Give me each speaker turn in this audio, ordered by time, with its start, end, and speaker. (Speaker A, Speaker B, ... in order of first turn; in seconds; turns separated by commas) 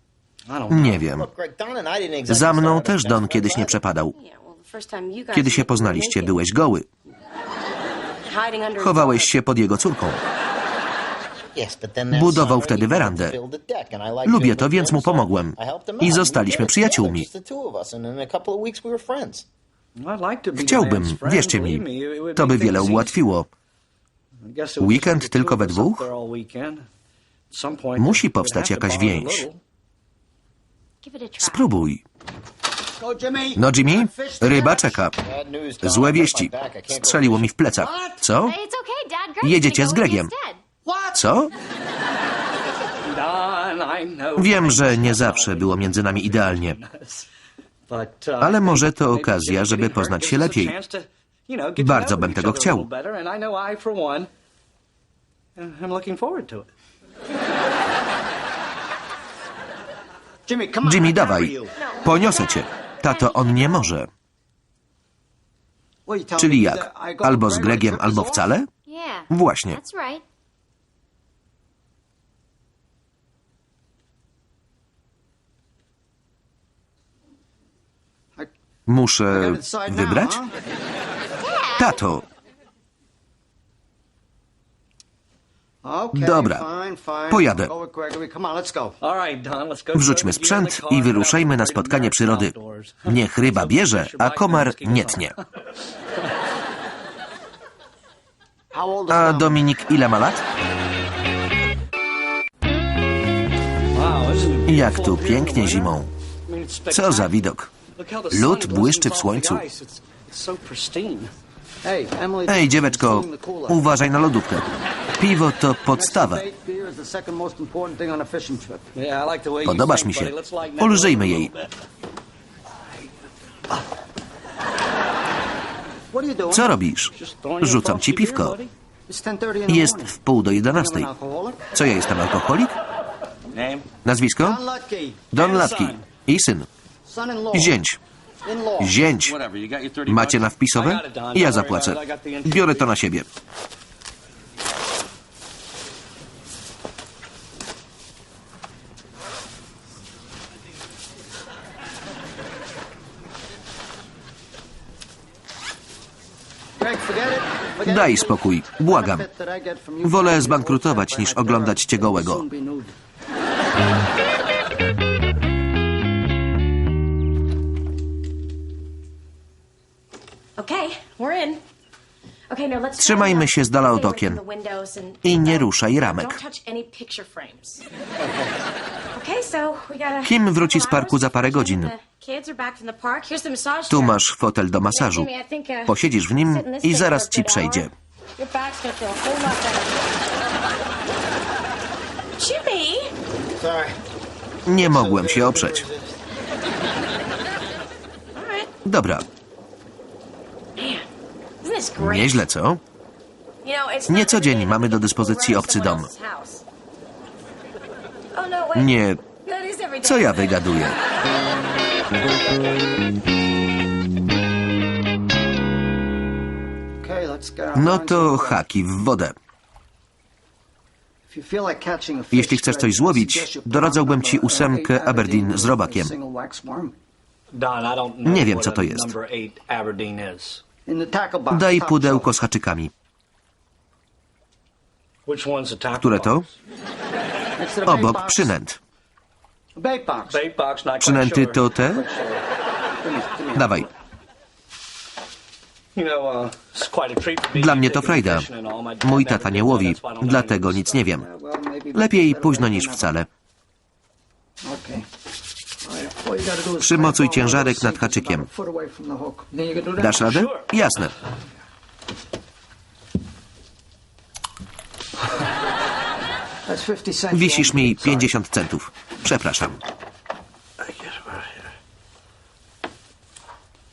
Speaker A: 0.5-1.0, Speaker B: 0.7-1.3, Speaker C: 0.7-3.8, Speaker B: 2.3-4.2, Speaker D: 4.1-6.5, Speaker B: 5.3-6.9, Speaker D: 8.2-9.3, Speaker B: 8.8-10.2, Speaker C: 11.6-19.5, Speaker B: 12.1-13.4, Speaker B: 14.2-17.3, Speaker A: 20.0-23.2, Speaker B: 20.6-23.5, Speaker A: 24.4-26.9, Speaker B: 24.8-26.1, Speaker A: 27.5-29.6, Speaker B: 28.0-29.5, Speaker E: 31.0-31.8, Speaker B: 31.4-32.0, Speaker F: 33.0-35.0, Speaker B: 33.6-35.2, Speaker C: 35.1-37.5, Speaker B: 35.8-38.6, Speaker A: 37.8-38.2, Speaker E: 38.4-40.6, Speaker B: 39.4-40.3, Speaker F: 40.9-41.2, Speaker B: 41.1-41.5, Speaker A: 43.0-47.3, Speaker B: 44.4-46.8, Speaker A: 47.9-54.3, Speaker B: 48.4-50.8, Speaker B: 51.8-52.9, Speaker A: 55.6-56.7, Speaker F: 60.5-61.8, Speaker B: 60.8-64.1, Speaker D: 61.8-63.9, Speaker F: 66.0-68.6, Speaker B: 66.4-68.7, Speaker E: 68.9-70.2, Speaker B: 69.3-69.8, Speaker B: 78.9-80.4, Speaker F: 79.3-80.5, Speaker E: 81.4-82.0, Speaker B: 81.8-82.2, Speaker F: 85.8-89.0, Speaker B: 86.1-86.7, Speaker B: 87.3-87.7, Speaker A: 89.0-95.4, Speaker B: 89.9-95.3, Speaker F: 98.7-99.6, Speaker B: 99.1-100.4, Speaker A: 103.9-106.0, Speaker B: 104.7-106.1, Speaker A: 106.5-111.3, Speaker B: 106.9-107.7, Speaker B: 108.3-109.7, Speaker F: 111.8-113.9, Speaker B: 112.5-114.7, Speaker B: 115.2-116.5, Speaker F: 115.9-118.8, Speaker A: 119.0-121.7, Speaker B: 119.6-121.5, Speaker F: 126.1-126.8, Speaker B: 126.5-128.6, Speaker A: 127.1-128.7, Speaker F: 129.1-130.2, Speaker B: 129.7-131.1, Speaker F: 130.7-131.7, Speaker B: 131.7-132.8, Speaker A: 133.5-133.9, Speaker B: 134.1-134.6, Speaker F: 134.4-135.3, Speaker B: 135.3-136.7, Speaker A: 135.3-136.0, Speaker F: 137.0-137.8, Speaker B: 137.5-138.0, Speaker F: 138.4-139.0, Speaker B: 138.8-139.4, Speaker A: 139.1-142.9, Speaker B: 140.1-143.3, Speaker F: 156.8-162.9, Speaker B: 157.8-159.3, Speaker B: 160.0-162.4, Speaker D: 170.6-171.6, Speaker D: 172.5-177.8, Speaker B: 173.0-174.4, Speaker B: 175.2-176.4, Speaker D: 179.1-184.3, Speaker B: 180.2-181.9, Speaker B: 183.9-185.3, Speaker D: 184.8-190.0, Speaker B: 185.9-187.9, Speaker D: 192.4-193.1, Speaker C: 193.6-194.0, Speaker B: 194.7-195.9, Speaker C: 194.7-196.2, Speaker D: 198.3-198.7, Speaker B: 198.8-199.3, Speaker D: 200.8-201.1, Speaker D: 201.6-202.5, Speaker B: 202.0-202.8, Speaker D: 203.6-206.6, Speaker B: 204.1-206.1, Speaker D: 208.3-210.8, Speaker B: 208.7-209.2, Speaker B: 210.0-211.0, Speaker F: 217.0-218.7, Speaker B: 217.8-219.4, Speaker F: 221.3-227.0, Speaker B: 222.3-226.1, Speaker A: 227.5-230.6, Speaker B: 228.2-229.2, Speaker F: 230.9-232.4, Speaker B: 231.5-232.9, Speaker A: 235.3-236.5, Speaker B: 236.0-236.5, Speaker F: 237.6-238.5, Speaker B: 237.8-238.8, Speaker F: 239.8-240.4, Speaker A: 240.3-242.4, Speaker B: 241.0-242.1, Speaker F: 243.0-243.9, Speaker B: 243.5-243.9, Speaker A: 245.9-251.0, Speaker B: 247.5-248.5, Speaker B: 249.0-251.3, Speaker F: 251.2-253.1, Speaker B: 251.9-253.3, Speaker F: 254.6-255.1, Speaker F: 255.8-260.2, Speaker B: 256.8-258.5, Speaker B: 260.0-261.1, Speaker A: 260.1-260.7, Speaker F: 266.6-268.3, Speaker B: 267.3-269.8, Speaker A: 270.9-271.5